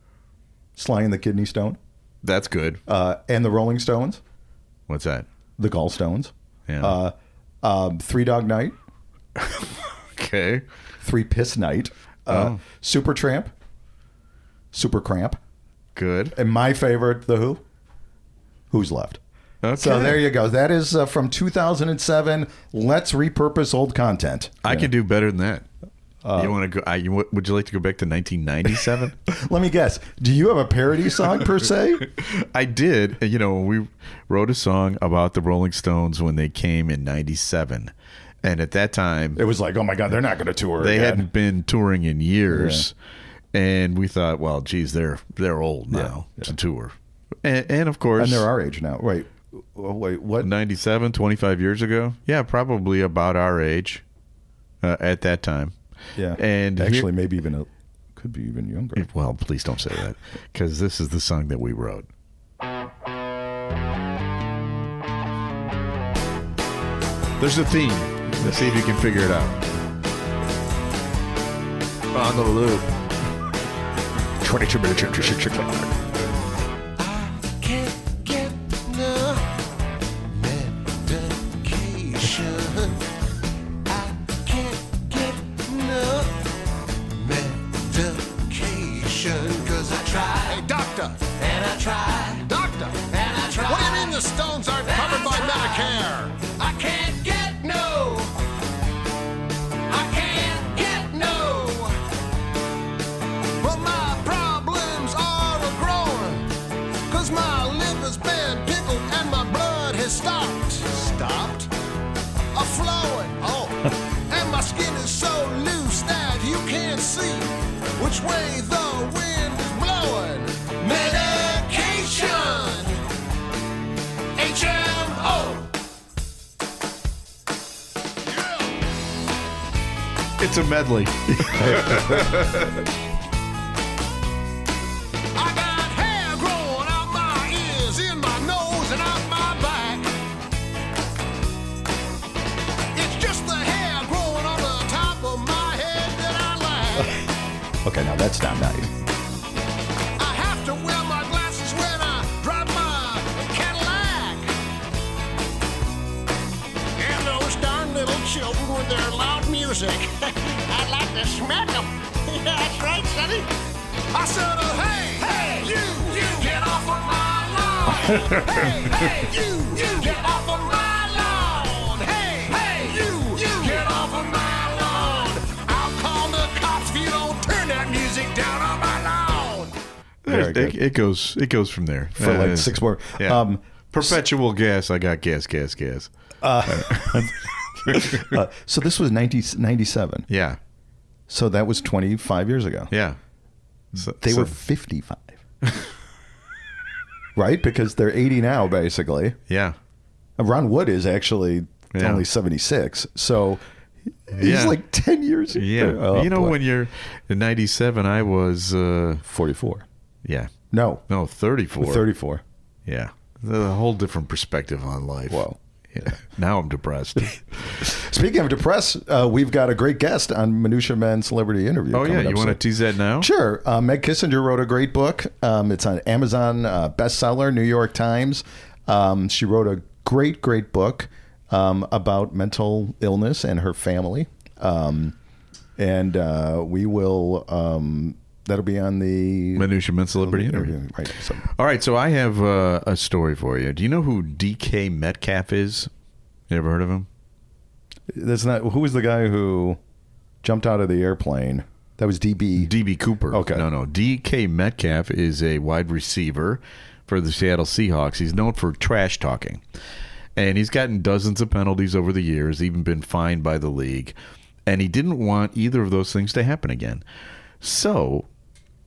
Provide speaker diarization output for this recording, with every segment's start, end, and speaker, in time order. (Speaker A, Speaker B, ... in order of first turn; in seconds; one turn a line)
Speaker A: 0.8-1.8
Speaker B: 2.2-2.8
Speaker A: 2.9-4.2
Speaker B: 4.9-5.2
Speaker A: 5.6-8.8
Speaker B: 6.7-7.0
Speaker B: 9.4-10.6
Speaker A: 11.0-13.5
Speaker B: 12.3-12.6
Speaker A: 14.7-15.4
Speaker B: 15.9-16.3
Speaker A: 16.3-17.6
Speaker A: 18.7-19.2
Speaker B: 19.6-20.2
Speaker A: 19.8-24.9
Speaker B: 24.6-25.6
Speaker A: 26.2-26.6
Speaker B: 26.4-29.2
Speaker A: 29.3-32.1
Speaker B: 32.1-39.4
Speaker A: 39.4-41.3
Speaker B: 40.8-42.9
Speaker A: 42.5-42.9
Speaker B: 43.5-48.5
Speaker A: 45.9-46.5
Speaker A: 48.2-50.5
Speaker B: 50.4-54.0
Speaker B: 54.8-55.7
Speaker A: 56.1-59.1
Speaker B: 56.3-57.1
Speaker B: 59.0-62.1
Speaker B: 67.4-69.6
Speaker B: 72.1-72.9
Speaker A: 74.4-76.0
Speaker C: 77.0-79.5
Speaker C: 80.3-83.0
Speaker C: 83.9-86.5
Speaker C: 87.1-98.4
Speaker C: 99.9-102.0
Speaker C: 103.6-106.5
Speaker C: 107.1-111.7
Speaker C: 112.5-123.0
Speaker C: 124.3-125.7
Speaker C: 128.3-128.6
Speaker B: 130.4-132.8
Speaker A: 131.3-132.4
Speaker C: 135.3-140.1
Speaker C: 142.9-147.2
Speaker A: 147.8-148.9
Speaker C: 150.2-154.5
Speaker C: 157.0-163.5
Speaker C: 164.1-179.8
Speaker B: 180.2-186.1
Speaker A: 180.2-180.8
Speaker A: 182.2-184.2
Speaker A: 186.4-190.3
Speaker B: 186.7-187.3
Speaker B: 187.8-188.3
Speaker B: 190.3-190.6
Speaker A: 191.3-192.9
Speaker B: 192.9-193.2
Speaker B: 193.9-194.5
Speaker A: 193.9-195.4
Speaker A: 197.3-199.4
Speaker B: 199.5-199.8
Speaker A: 200.4-203.6
Speaker B: 201.9-202.2
Speaker A: 204.3-206.6
Speaker B: 204.4-204.8
Speaker B: 205.5-209.2
Speaker A: 209.2-209.8
Speaker B: 210.2-210.5
Speaker A: 210.7-211.0
Speaker B: 211.1-212.1
Speaker A: 211.8-212.4
Speaker B: 212.8-217.9
Speaker A: 215.3-216.1
Speaker A: 217.8-222.6
Speaker B: 221.9-223.3
Speaker A: 223.2-235.2
Speaker A: 235.8-241.4
Speaker B: 239.6-240.8
Speaker B: 241.4-245.9
Speaker B: 246.5-247.1
Speaker A: 248.1-249.8
Speaker A: 250.4-252.7
Speaker B: 252.6-259.6
Speaker A: 253.3-253.7
Speaker B: 260.4-264.1
Speaker B: 264.6-267.0
Speaker B: 267.6-268.3